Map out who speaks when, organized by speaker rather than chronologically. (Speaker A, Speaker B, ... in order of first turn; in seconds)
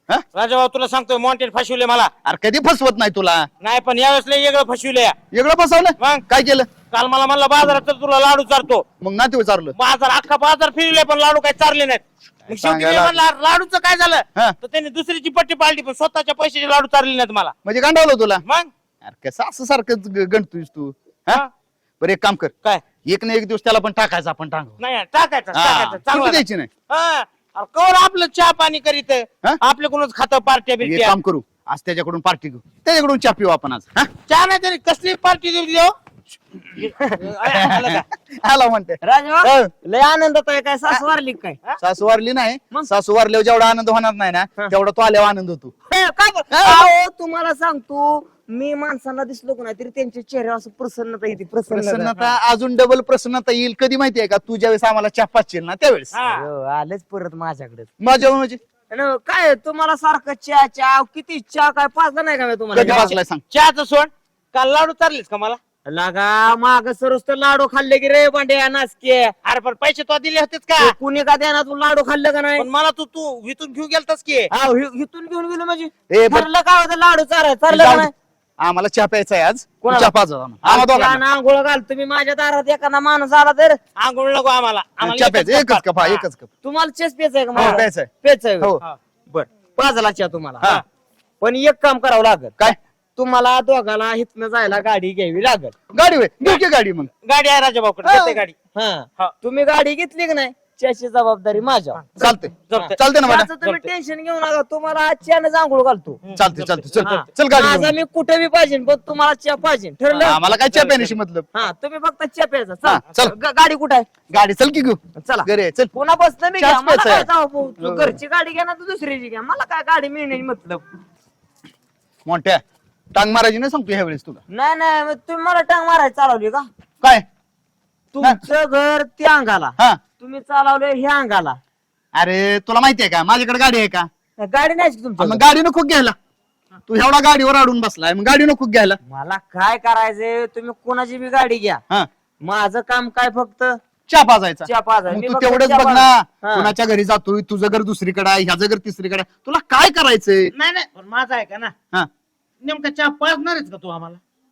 Speaker A: 0.3-2.1, 3.6-5.2, 6.0-6.2, 6.9-8.8, 9.8-17.5, 18.4-18.7, 24.8-31.2, 34.3-36.0, 36.8-38.0, 56.1-56.5, 62.8-65.6, 69.4-71.0, 72.6-74.5, 84.0-86.2, 87.6-87.8, 97.2-98.5, 102.0-103.0, 103.6-103.9, 106.3-107.2, 110.1-111.2, 150.5-151.7, 152.6-154.2
Speaker B: 2.2-3.5, 5.3-6.7, 9.0-9.8, 12.5-13.2, 17.6-18.4, 19.0-21.4, 22.0-22.5, 23.0-24.8, 25.5-26.7, 30.8-34.1, 37.5-39.7, 41.8-45.7, 46.5-46.9, 51.7-56.1, 58.0-58.6, 62.7-63.4, 76.1-76.5, 77.7-81.2, 85.0-86.5, 87.5-88.1, 95.9-97.1, 98.0-98.4, 102.2-103.5, 106.3-108.0, 110.2-111.5, 112.8-113.3, 114.3-115.9, 116.6-117.3, 117.8-118.2, 122.2-122.6, 123.1-124.4, 132.1-134.1, 135.2-136.2, 136.9-139.0, 144.1-150.5
Speaker C: 39.0-41.6, 45.9-52.1, 56.3-57.9, 58.9-63.2, 65.9-69.3, 70.8-72.7, 74.5-78.1, 79.8-80.1, 80.6-83.8, 86.6-88.7, 89.3-90.7, 91.4-95.7, 98.7-102.0, 102.8-106.2, 107.0-110.4, 111.5-114.1, 115.2-120.8, 124.5-126.7, 128.1-131.6, 134.4-135.4, 139.1-141.8, 142.4-143.8, 144.7-146.7